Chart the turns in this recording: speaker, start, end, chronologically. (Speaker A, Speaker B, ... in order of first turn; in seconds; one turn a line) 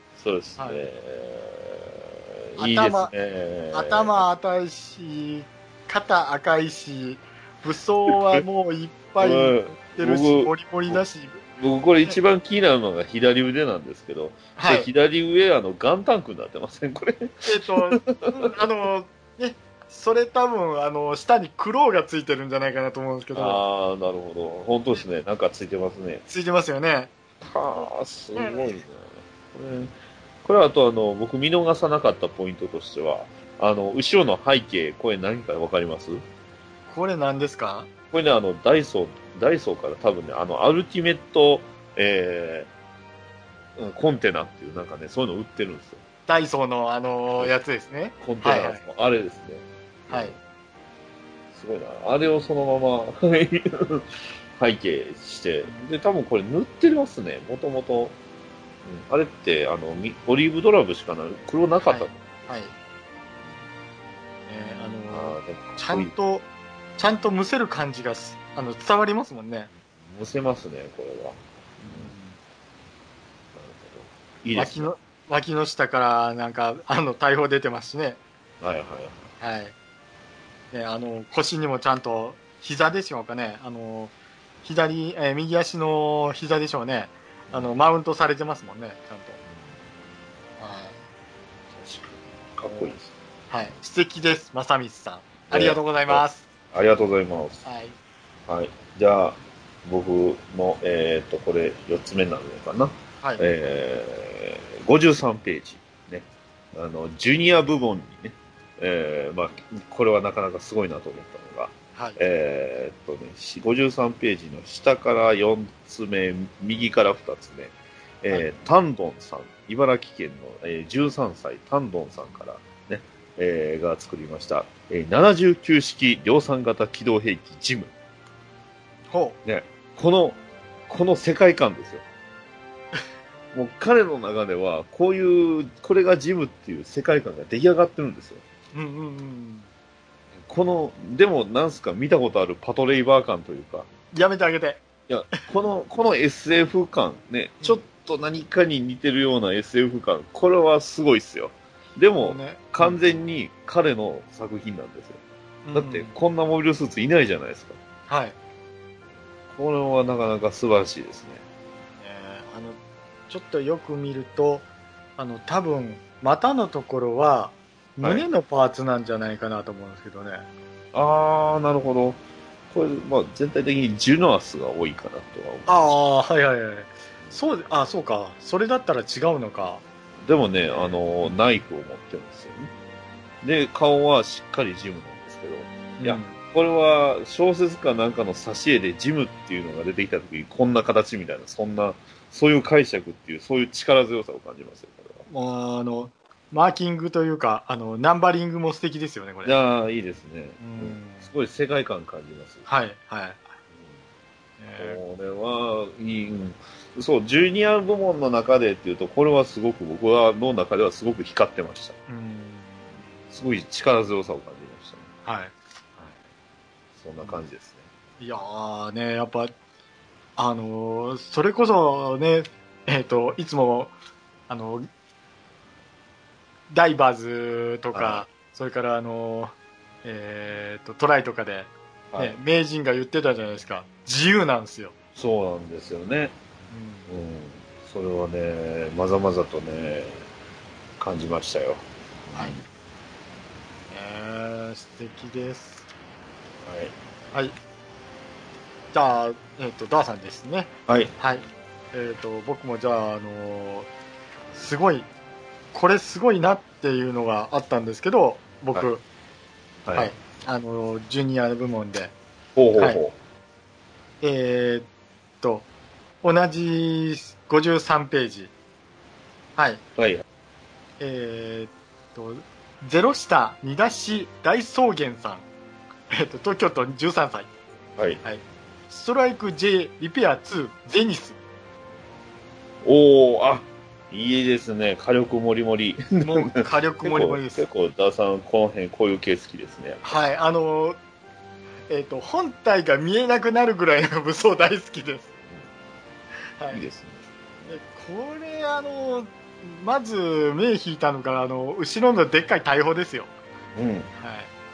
Speaker A: 0.1-4.2
Speaker B: 2.6-3.1
Speaker B: 3.7-11.4
Speaker A: 9.2-11.0
Speaker A: 11.6-18.5
Speaker B: 14.6-14.9
Speaker B: 17.4-23.6
Speaker A: 23.3-26.2
Speaker B: 26.3-27.1
Speaker A: 27.4-36.2
Speaker B: 28.4-28.6
Speaker B: 36.9-37.9
Speaker A: 38.1-42.7
Speaker A: 43.8-46.0
Speaker B: 46.3-48.8
Speaker A: 48.2-50.4
Speaker B: 50.1-50.3
Speaker A: 51.5-58.1
Speaker A: 58.8-62.5
Speaker B: 61.9-62.7
Speaker B: 64.5-69.7
Speaker A: 65.1-66.1
Speaker A: 70.0-72.1
Speaker B: 71.8-72.4
Speaker A: 73.5-74.9
Speaker B: 74.5-78.2
Speaker A: 78.6-79.2
Speaker B: 79.4-79.7
Speaker B: 80.7-89.4
Speaker A: 89.5-89.8
Speaker B: 90.6-91.0
Speaker A: 91.7-93.1
Speaker B: 92.7-93.0
Speaker B: 93.5-96.4
Speaker A: 95.5-97.7
Speaker B: 97.6-98.0
Speaker A: 98.5-127.9
Speaker B: 129.1-129.4
Speaker A: 129.4-132.0
Speaker A: 133.5-138.4
Speaker B: 138.7-139.7
Speaker A: 140.5-143.9
Speaker B: 144.1-144.8
Speaker A: 145.1-155.2
Speaker B: 152.2-153.0
Speaker B: 155.6-156.1
Speaker A: 155.7-157.8
Speaker B: 158.1-158.3
Speaker A: 159.5-161.4
Speaker B: 162.0-162.8
Speaker B: 163.3-164.7
Speaker B: 165.2-170.4
Speaker A: 170.9-175.9
Speaker B: 175.7-179.8
Speaker A: 180.2-182.7
Speaker B: 180.7-181.3
Speaker A: 183.4-195.2
Speaker B: 186.0-186.4
Speaker B: 195.3-199.5
Speaker A: 199.4-202.7
Speaker B: 200.6-201.3
Speaker B: 202.7-203.5
Speaker B: 204.6-205.0
Speaker A: 204.8-212.0
Speaker B: 212.1-212.9
Speaker A: 213.3-215.1
Speaker B: 215.2-215.5
Speaker A: 216.9-217.9
Speaker B: 218.2-219.5
Speaker B: 220.4-223.9
Speaker B: 224.5-224.9
Speaker B: 226.7-234.9
Speaker A: 227.9-228.2
Speaker A: 232.1-232.4
Speaker A: 235.1-236.3
Speaker B: 236.7-237.1
Speaker A: 237.1-240.2
Speaker A: 241.0-242.6
Speaker B: 243.9-245.8
Speaker A: 246.6-246.9
Speaker B: 248.9-253.9
Speaker A: 250.9-251.1
Speaker B: 254.5-255.1
Speaker B: 255.7-259.0
Speaker A: 259.8-260.1
Speaker B: 259.9-262.1
Speaker A: 262.5-263.1
Speaker B: 264.2-264.9
Speaker B: 265.4-265.7
Speaker B: 266.2-268.5
Speaker B: 269.6-269.8
Speaker A: 269.9-270.2
Speaker B: 271.0-275.5
Speaker B: 276.1-277.5
Speaker B: 278.2-281.4
Speaker A: 282.8-290.1
Speaker B: 286.2-287.7
Speaker B: 290.0-291.0
Speaker B: 291.9-295.3
Speaker A: 296.7-297.7
Speaker B: 297.7-303.3
Speaker A: 303.8-304.1
Speaker B: 304.2-304.5